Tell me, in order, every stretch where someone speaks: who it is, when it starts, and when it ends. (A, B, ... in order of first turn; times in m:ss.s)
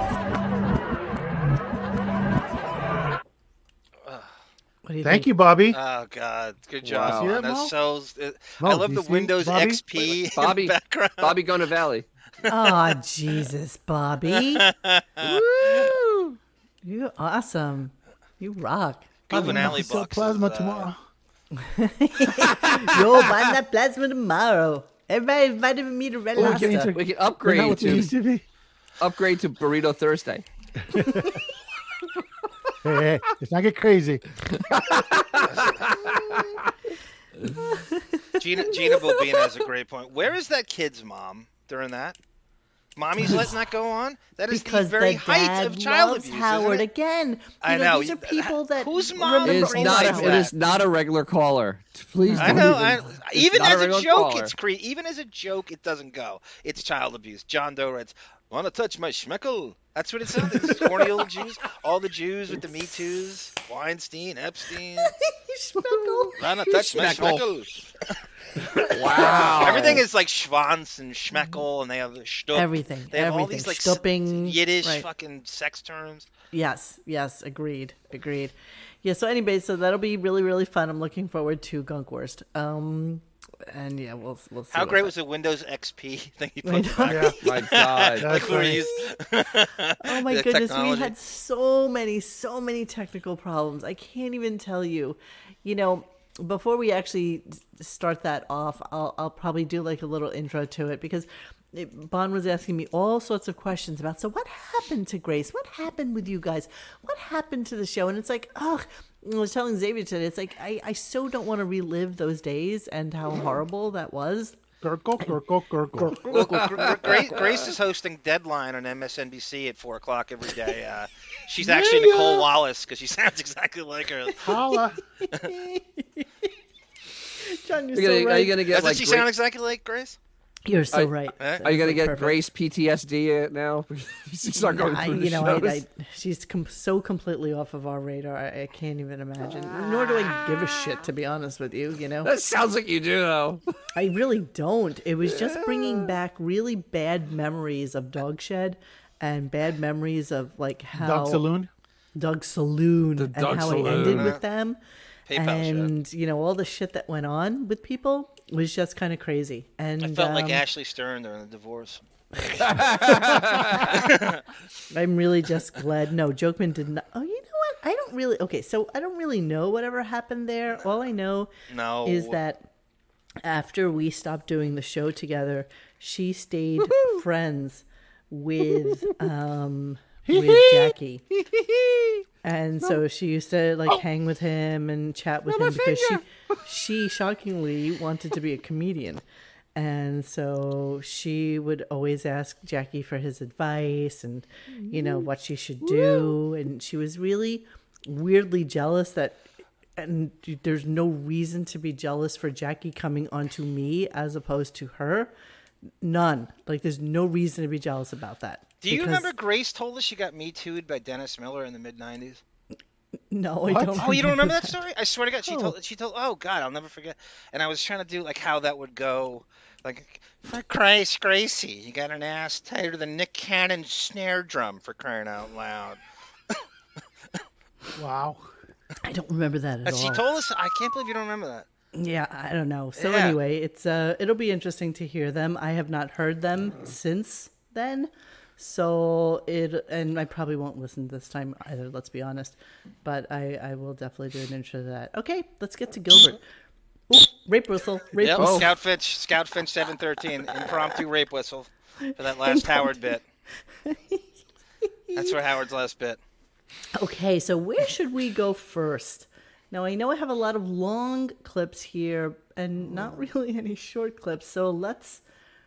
0:04.8-0:05.3 A
0:05.0-0:05.8 B
0:05.7-0:11.5 C
0:06.8-0:07.3 D
0:07.0-0:07.7 B
0:08.6-0:09.8 B
0:10.3-0:12.1 D
0:12.5-0:14.6 A
0:14.3-0:15.4 C
0:15.2-0:19.7 A
0:19.3-0:20.9 C
0:19.3-0:21.0 B
0:21.5-0:26.9 A
0:26.3-0:28.4 B
0:26.9-0:28.1 D
0:29.0-0:30.4 D
0:31.0-0:31.2 B
0:32.8-0:34.2 B
0:34.8-0:36.6 D
0:37.6-0:38.4 A
0:38.4-0:42.2 C
0:43.0-0:46.9 C
0:44.5-0:50.5 A
0:47.6-0:50.5 C
0:49.4-0:54.6 D
0:52.4-1:05.1 C
1:05.0-1:06.4 A
1:06.4-1:07.7 C
1:06.7-1:07.5 D
1:08.9-1:10.0 D
1:09.1-1:16.3 C
1:09.3-1:09.8 A
1:12.5-1:15.0 A
1:16.5-1:25.1 A
1:24.7-1:31.1 C
1:26.6-1:27.4 A
1:27.1-1:27.4 B
1:27.4-1:28.6 D
1:28.2-1:28.8 B
1:30.0-1:54.6 A
1:54.8-1:56.2 B
1:56.3-2:04.4 C
1:56.3-1:57.7 D
2:01.7-2:02.0 B
2:04.4-2:05.0 B
2:05.2-2:06.2 A
2:07.4-2:08.7 A
2:07.9-2:09.3 D
2:08.7-2:10.2 C
2:10.6-2:12.4 A
2:10.9-2:15.8 D
2:11.4-2:11.6 C
2:14.5-2:22.3 A
2:22.2-2:23.6 D
2:23.9-2:31.5 A
2:25.2-2:26.1 D
2:30.9-2:31.7 B
2:32.2-2:34.8 A
2:33.2-2:34.4 D
2:33.9-2:34.4 C
2:35.3-2:35.9 C
2:35.3-2:40.6 A
2:40.0-2:42.0 C
2:42.6-2:44.0 D
2:43.2-2:43.5 A
2:43.9-2:44.4 C
2:44.9-2:51.5 A
2:51.7-2:52.4 C
2:52.0-2:52.7 A
2:53.4-3:01.2 A
3:00.2-3:02.2 B
3:02.4-3:09.2 A
3:05.5-3:06.2 B
3:09.7-3:19.4 A
3:14.8-3:15.3 B
3:20.0-3:25.3 A
3:26.0-3:29.3 A
3:28.8-3:32.4 C
3:33.3-3:34.8 A
3:33.7-3:34.2 B
3:34.0-3:46.0 C
3:35.4-3:35.8 A
3:48.0-3:48.5 B
3:49.0-3:50.2 A
3:49.8-3:51.7 C
3:51.9-4:06.4 A
3:53.0-3:53.4 C
4:07.1-4:08.6 A
4:08.2-4:13.2 C
4:08.4-4:08.8 D
4:12.0-4:13.2 A
4:13.8-4:14.3 A
4:15.1-4:15.3 A
4:15.1-4:16.2 C
4:17.0-4:25.2 A